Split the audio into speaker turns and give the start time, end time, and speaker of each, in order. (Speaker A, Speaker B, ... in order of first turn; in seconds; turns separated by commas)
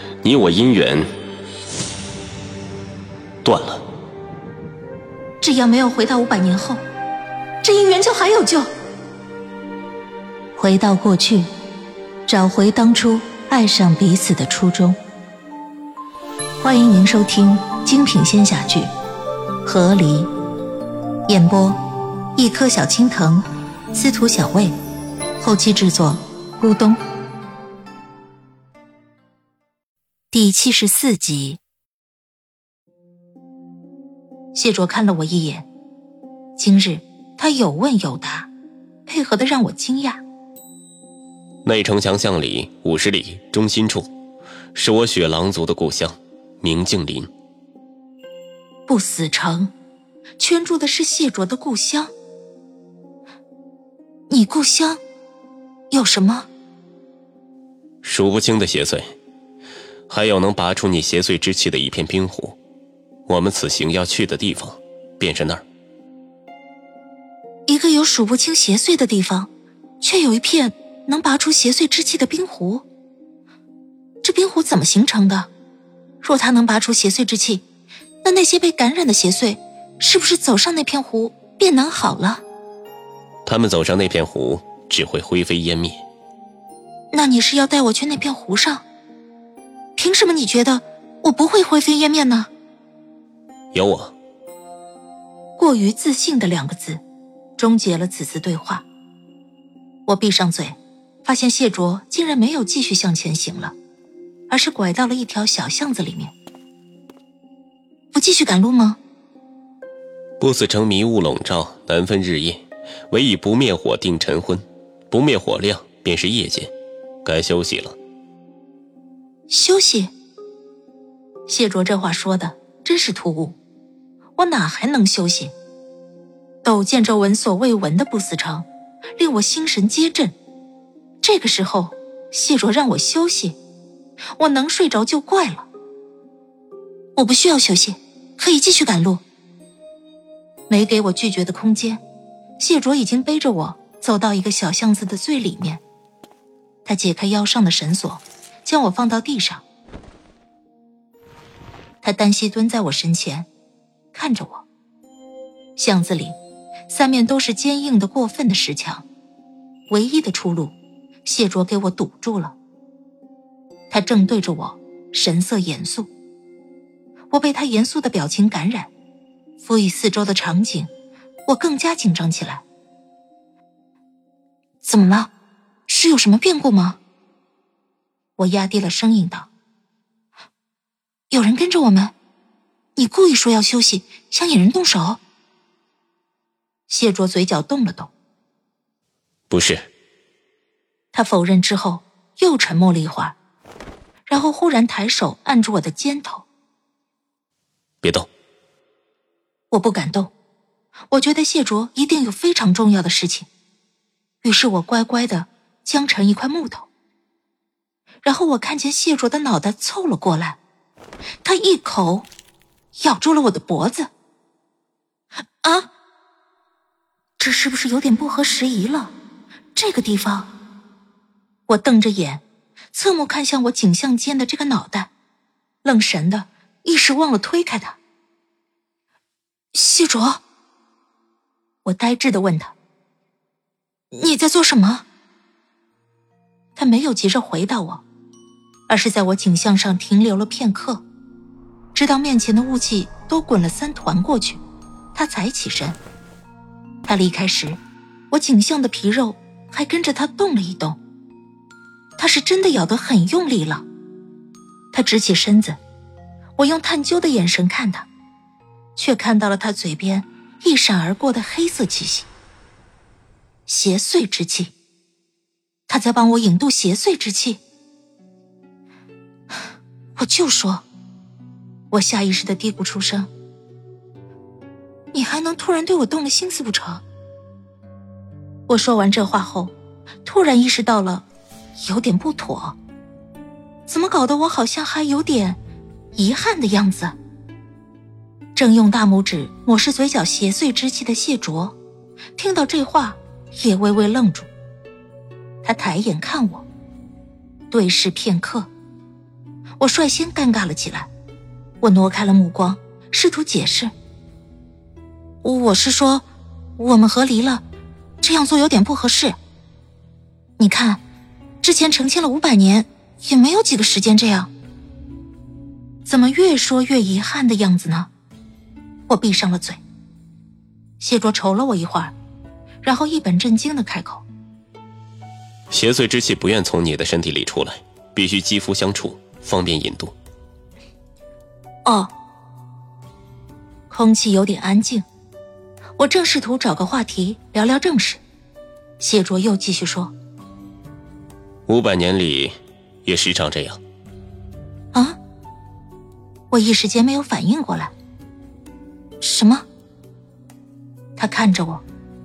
Speaker A: 0.2-1.1, Speaker A: 3.4-3.8, Speaker B: 5.4-6.8, Speaker B: 7.6-8.7, Speaker B: 10.6-11.5, Speaker B: 12.3-15.0, Speaker B: 16.6-18.9, Speaker B: 19.6-20.3, Speaker B: 21.3-21.8, Speaker B: 22.4-24.8, Speaker B: 25.4-27.0, Speaker B: 30.3-31.6, Speaker B: 34.5-35.7, Speaker B: 36.6-38.5, Speaker B: 39.1-40.2, Speaker A: 41.6-44.1, Speaker A: 44.8-47.3, Speaker B: 48.9-49.7, Speaker B: 50.4-52.1, Speaker B: 54.3-55.0, Speaker B: 55.9-56.5, Speaker A: 58.0-59.1, Speaker A: 60.1-62.6, Speaker A: 63.3-65.6, Speaker B: 67.7-72.8, Speaker B: 74.2-75.5, Speaker B: 76.2-77.7, Speaker B: 78.2-82.4, Speaker A: 83.5-86.0, Speaker B: 87.1-88.8, Speaker B: 90.0-92.5, Speaker A: 93.7-94.1, Speaker B: 95.6-97.0, Speaker B: 97.6-98.8, Speaker B: 100.1-103.8, Speaker B: 104.5-106.3, Speaker B: 108.1-109.0, Speaker A: 110.4-116.7, Speaker A: 117.2-118.0, Speaker B: 119.5-120.1, Speaker B: 121.5-123.6, Speaker B: 124.4-125.5, Speaker B: 126.6-130.3, Speaker B: 131.2-133.6, Speaker B: 134.4-135.7, Speaker B: 137.2-139.2, Speaker B: 140.7-142.0, Speaker B: 142.6-145.8, Speaker B: 146.8-149.6, Speaker B: 152.0-153.5, Speaker B: 154.1-154.7, Speaker B: 155.8-156.4, Speaker B: 156.9-159.1, Speaker B: 159.9-162.6, Speaker B: 163.9-166.1, Speaker B: 167.3-168.9, Speaker B: 169.6-170.9, Speaker B: 171.5-172.6, Speaker B: 174.8-175.3, Speaker B: 175.9-177.0, Speaker B: 178.4-179.5, Speaker B: 181.3-182.2, Speaker B: 183.0-185.2, Speaker B: 186.9-188.1, Speaker A: 189.5-189.9, Speaker B: 191.1-193.4, Speaker B: 194.3-196.5, Speaker A: 198.0-198.3, Speaker B: 199.7-200.3, Speaker B: 201.1-203.5, Speaker B: 204.4-206.9, Speaker B: 208.2-210.6, Speaker B: 211.4-212.3, Speaker B: 213.0-214.1, Speaker B: 215.6-215.9, Speaker B: 217.4-219.1, Speaker B: 219.8-220.5, Speaker B: 221.7-225.1, Speaker B: 225.8-228.0, Speaker B: 229.7-230.4, Speaker B: 231.8-232.8, Speaker B: 234.1-235.1, Speaker B: 236.8-238.0, Speaker B: 238.9-241.0, Speaker B: 241.9-244.6, Speaker B: 245.1-246.0, Speaker B: 247.1-247.8, Speaker B: 248.3-251.0, Speaker B: 252.2-253.9, Speaker B: 254.9-255.8, Speaker B: 256.6-258.1, Speaker B: 259.0-262.3, Speaker B: 263.7-264.7, Speaker B: 265.9-267.6, Speaker B: 270.2-270.9, Speaker B: 271.9-273.3, Speaker B: 275.1-277.0, Speaker B: 278.7-279.7, Speaker B: 280.2-281.2, Speaker B: 281.8-282.8, Speaker B: 283.9-285.6, Speaker B: 286.1-287.2, Speaker B: 288.6-291.8, Speaker B: 292.4-294.5, Speaker B: 295.6-296.7, Speaker B: 297.7-298.7, Speaker B: 299.8-301.1, Speaker B: 301.8-303.9, Speaker B: 305.4-306.3, Speaker B: 306.8-307.6, Speaker B: 308.2-309.4, Speaker B: 310.6-311.0, Speaker B: 311.6-314.5, Speaker B: 316.1-318.1, Speaker B: 319.1-319.8, Speaker B: 321.0-322.1, Speaker B: 322.8-324.2, Speaker A: 325.7-330.1, Speaker B: 331.9-332.1, Speaker B: 333.9-335.1, Speaker B: 336.0-338.2, Speaker B: 339.0-340.1, Speaker A: 341.7-342.5, Speaker A: 343.1-343.8, Speaker B: 346.5-347.9, Speaker B: 349.2-349.7, Speaker B: 351.2-351.8